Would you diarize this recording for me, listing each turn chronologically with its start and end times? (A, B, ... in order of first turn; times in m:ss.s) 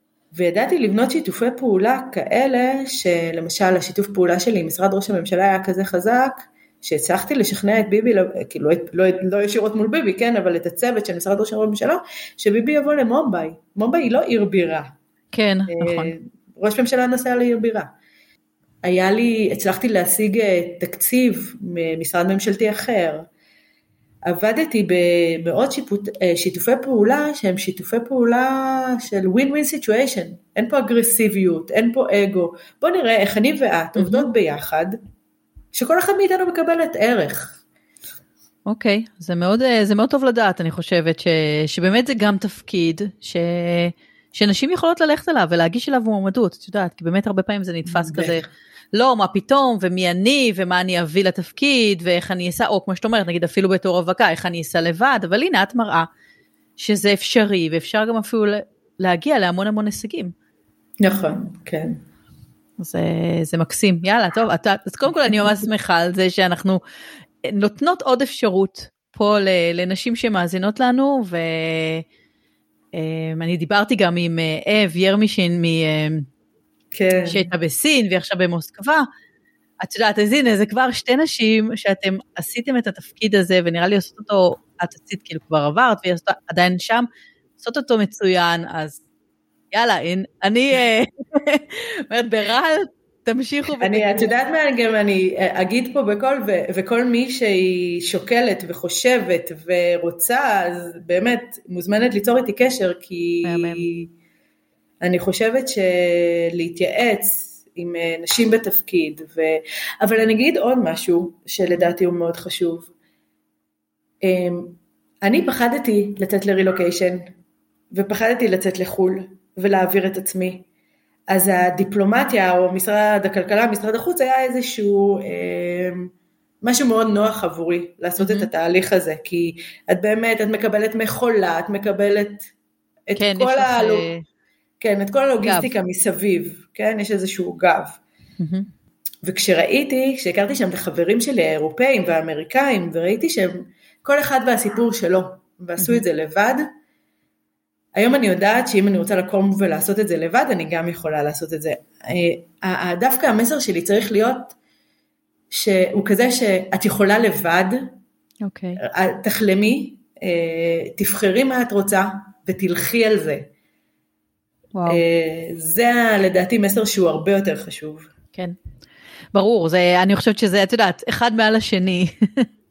0:00.3-0:14.9 A
0:15.3-0:16.1 B
0:15.7-0:17.9 A
0:18.8-0:23.2 A
0:24.3-0:35.0 A
0:34.0-0:34.3 B
0:35.7-0:37.6 A
0:38.6-0:56.1 B
0:47.9-0:48.4 A
0:56.8-1:00.3 B
1:01.0-1:01.9 A
1:02.8-1:06.8 B
1:07.4-1:12.0 B
1:12.9-1:16.3 B
1:16.9-1:17.4 A
1:17.2-1:19.0 B
1:19.8-1:27.1 B
1:27.6-1:29.0 B
1:29.7-1:34.3 B
1:33.8-1:44.1 A
1:43.4-1:43.9 B
1:45.0-1:52.9 A
1:54.2-1:57.2 A
1:57.9-2:00.6 A
2:01.3-2:06.1 A
2:06.6-2:12.5 A
2:08.2-2:08.5 B
2:13.1-2:14.1 A
2:13.2-2:14.2 B
2:14.8-2:18.0 A
2:15.4-2:15.7 B
2:18.4-2:18.7 B
2:19.2-2:26.6 A
2:25.8-2:26.0 B
2:27.9-2:34.6 A
2:35.5-2:37.9 A
2:38.4-2:38.8 B
2:38.8-2:43.5 A
2:44.7-2:45.0 B
2:44.9-2:48.1 A
2:49.3-2:52.5 B